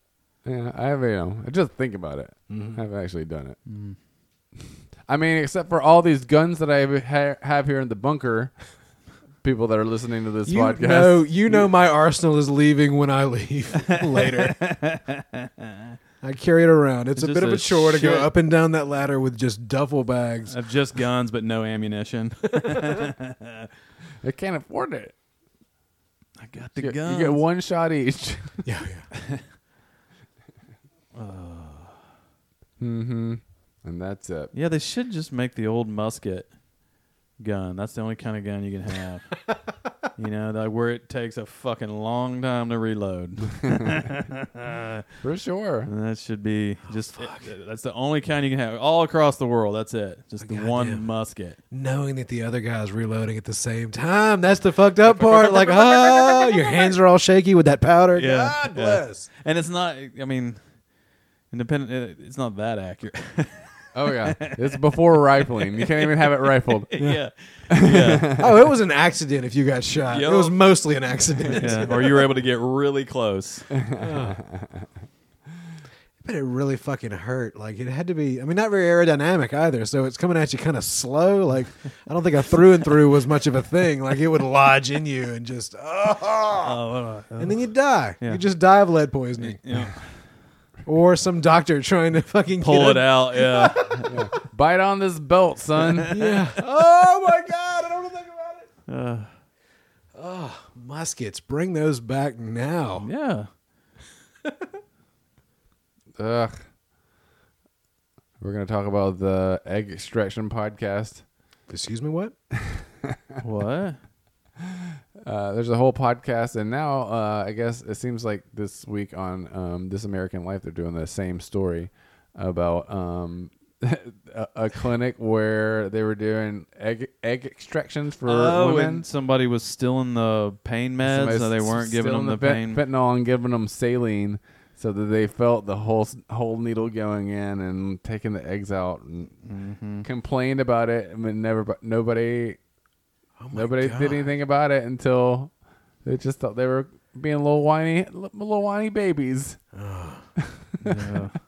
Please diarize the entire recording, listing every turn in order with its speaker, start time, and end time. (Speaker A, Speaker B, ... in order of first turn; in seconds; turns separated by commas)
Speaker A: 0.4-3.6, Speaker B: 2.5-2.8, Speaker C: 3.6-4.0, Speaker A: 5.1-8.6, Speaker A: 9.4-11.6, Speaker B: 10.4-14.6, Speaker C: 13.9-15.9, Speaker B: 16.2-20.6, Speaker C: 17.2-18.3, Speaker C: 20.5-23.7, Speaker A: 24.2-25.1, Speaker C: 26.4-27.4, Speaker A: 26.8-28.6, Speaker B: 28.6-29.1, Speaker C: 29.2-29.4, Speaker C: 31.1-32.0, Speaker A: 32.8-34.5, Speaker C: 34.5-36.5, Speaker C: 37.4-39.4, Speaker C: 40.1-45.0, Speaker A: 45.2-45.9, Speaker C: 45.9-51.6, Speaker B: 47.1-47.5, Speaker B: 50.4-51.0, Speaker B: 51.7-59.3, Speaker C: 55.0-56.9, Speaker C: 58.1-60.6, Speaker C: 61.5-64.8, Speaker A: 63.9-66.9, Speaker C: 65.5-68.4, Speaker A: 67.7-68.5, Speaker B: 68.2-72.2, Speaker C: 70.1-70.5, Speaker C: 71.5-73.7, Speaker A: 73.7-74.9, Speaker B: 73.9-74.4, Speaker B: 76.2-86.8, Speaker C: 86.6-87.6, Speaker B: 87.4-89.6, Speaker C: 89.4-90.2, Speaker B: 90.8-94.4, Speaker C: 92.6-94.1, Speaker A: 94.1-96.1, Speaker C: 95.8-96.3, Speaker B: 96.1-98.7, Speaker C: 98.9-99.3, Speaker B: 100.1-103.1, Speaker C: 103.0-103.5, Speaker A: 106.2-106.6, Speaker A: 108.4-111.2, Speaker B: 111.7-112.3, Speaker A: 112.6-113.2, Speaker C: 113.4-114.0, Speaker A: 114.6-129.0, Speaker C: 128.2-132.8, Speaker A: 131.0-139.4, Speaker C: 139.4-140.1, Speaker A: 140.0-142.6, Speaker B: 143.4-144.3, Speaker A: 143.5-145.5, Speaker A: 146.0-149.6, Speaker B: 149.7-150.2, Speaker A: 150.4-151.1, Speaker C: 150.8-151.3